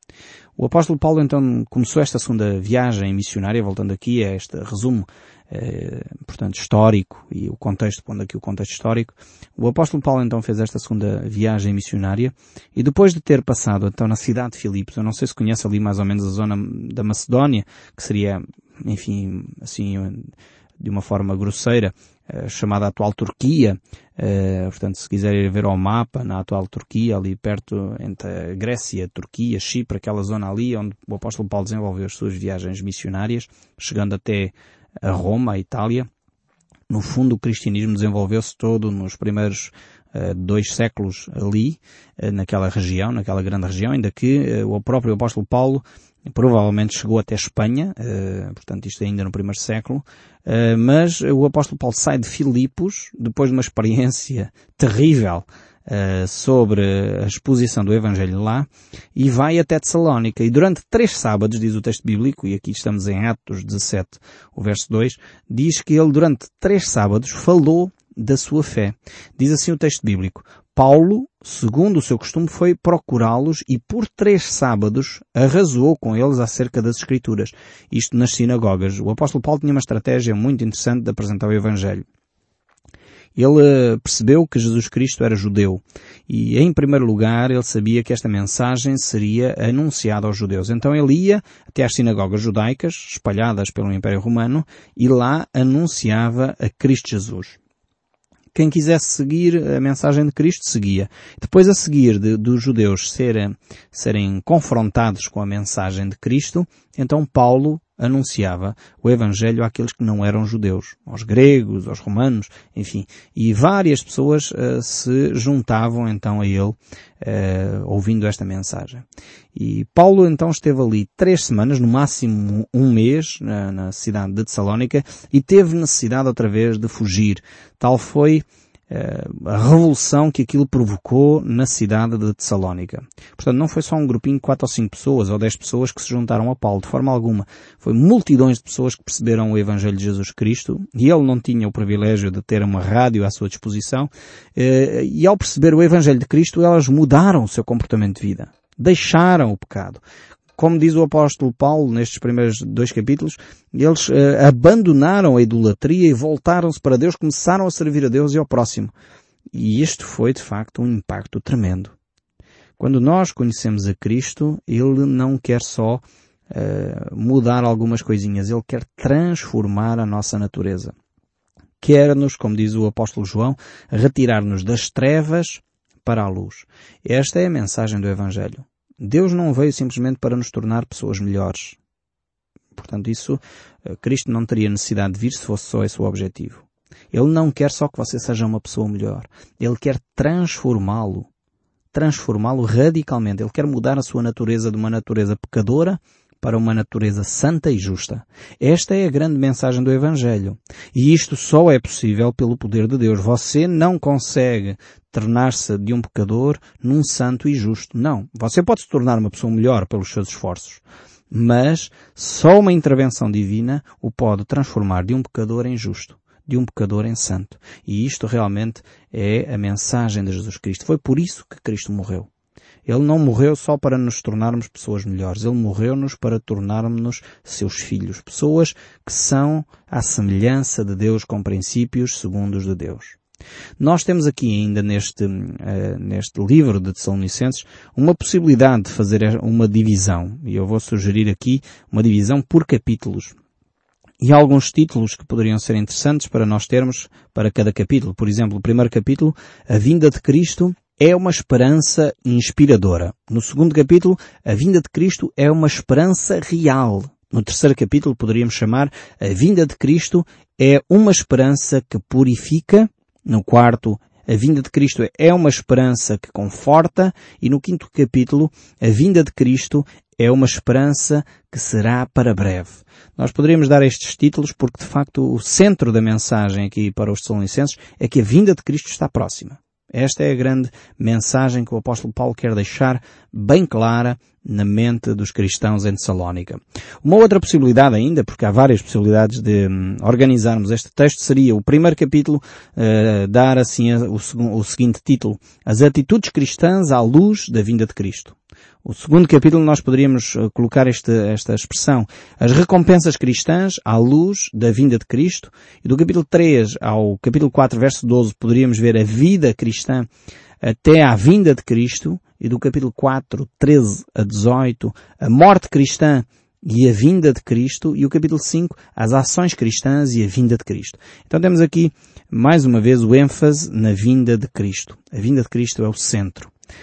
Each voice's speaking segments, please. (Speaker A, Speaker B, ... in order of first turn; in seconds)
Speaker A: 0.6-36.1, 36.9-82.0, 83.4-97.6, 98.5-150.0, 150.6-158.9, 159.5-161.9, 162.8-170.9, 171.8-181.8, 182.8-191.3, 191.9-222.3, 222.9-233.2, 233.8-243.3, 244.2-310.1, 310.6-326.5